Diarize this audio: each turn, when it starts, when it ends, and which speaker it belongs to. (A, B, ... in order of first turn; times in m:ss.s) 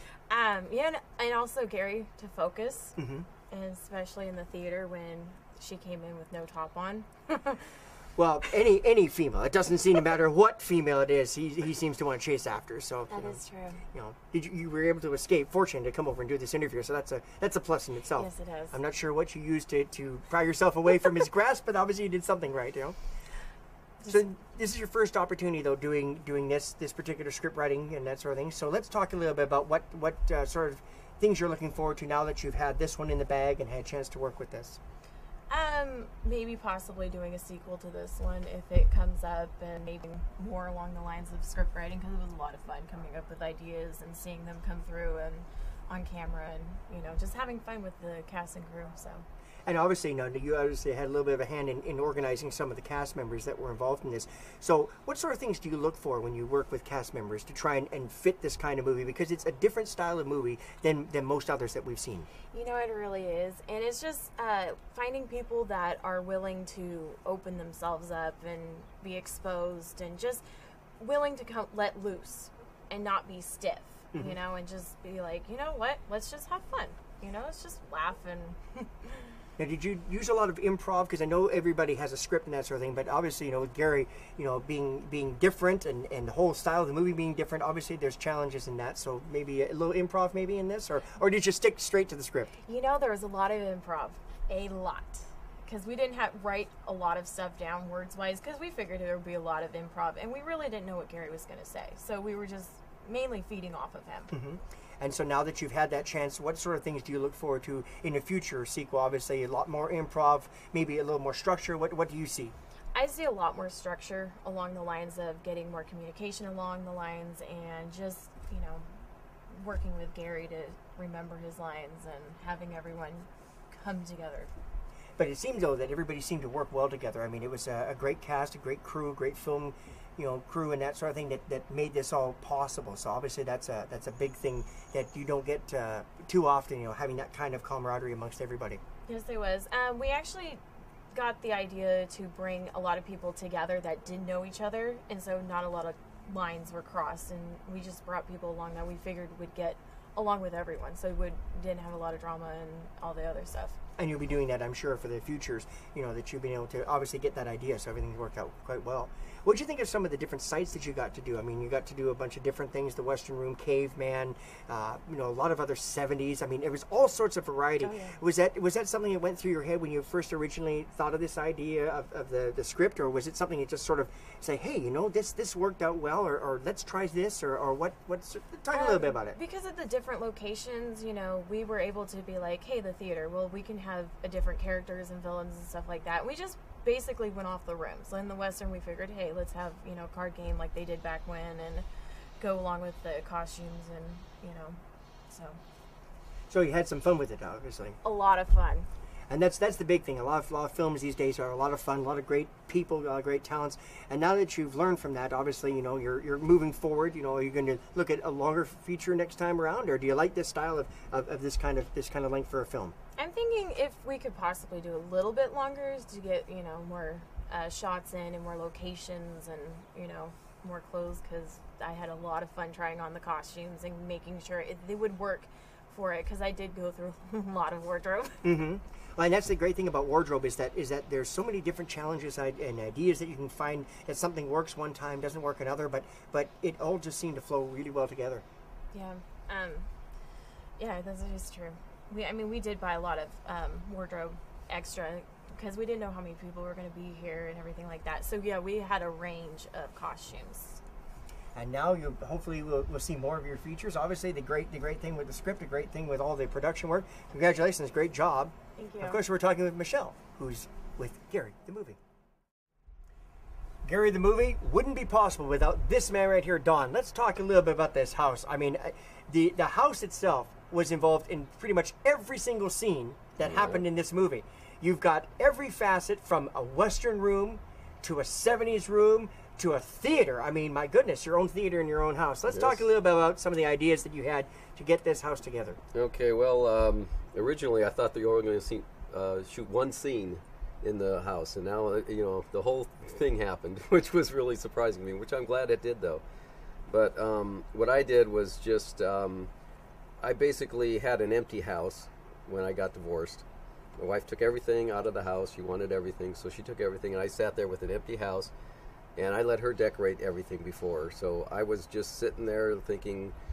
0:00.3-0:02.9 A
0:03.0-0:03.2 B
0:03.5-0:07.6 A
0:08.2-0:23.0 B
0:13.1-0:13.8 A
0:18.2-0:18.8 A
0:24.0-0:34.8 B
0:35.5-0:49.2 A
0:49.6-1:02.3 B
1:02.5-1:10.4 A
1:11.0-1:19.2 A
1:19.6-1:32.5 B
1:32.6-1:44.3 A
1:44.3-1:52.6 B
1:52.9-1:58.9 A
1:59.5-2:04.5 A
2:05.2-2:18.8 B
2:19.1-2:33.8 A
2:34.0-2:59.4 B
2:47.8-2:48.2 A
2:58.7-3:11.8 A
3:12.4-3:15.6 A
3:16.5-3:18.0 B
3:18.0-3:18.9 A
3:19.3-3:32.9 B
3:33.2-3:48.5 A
3:48.4-3:58.4 B
3:58.9-3:59.9 A
4:00.8-4:10.8 A
4:11.5-4:22.0 B
4:18.8-4:19.2 A
4:23.8-4:45.8 B
4:33.4-4:33.8 C
4:42.5-4:42.9 C
4:45.9-4:56.2 C
4:56.9-4:59.5 C
5:00.2-5:03.4 C
5:04.0-5:08.5 C
5:09.2-5:13.3 C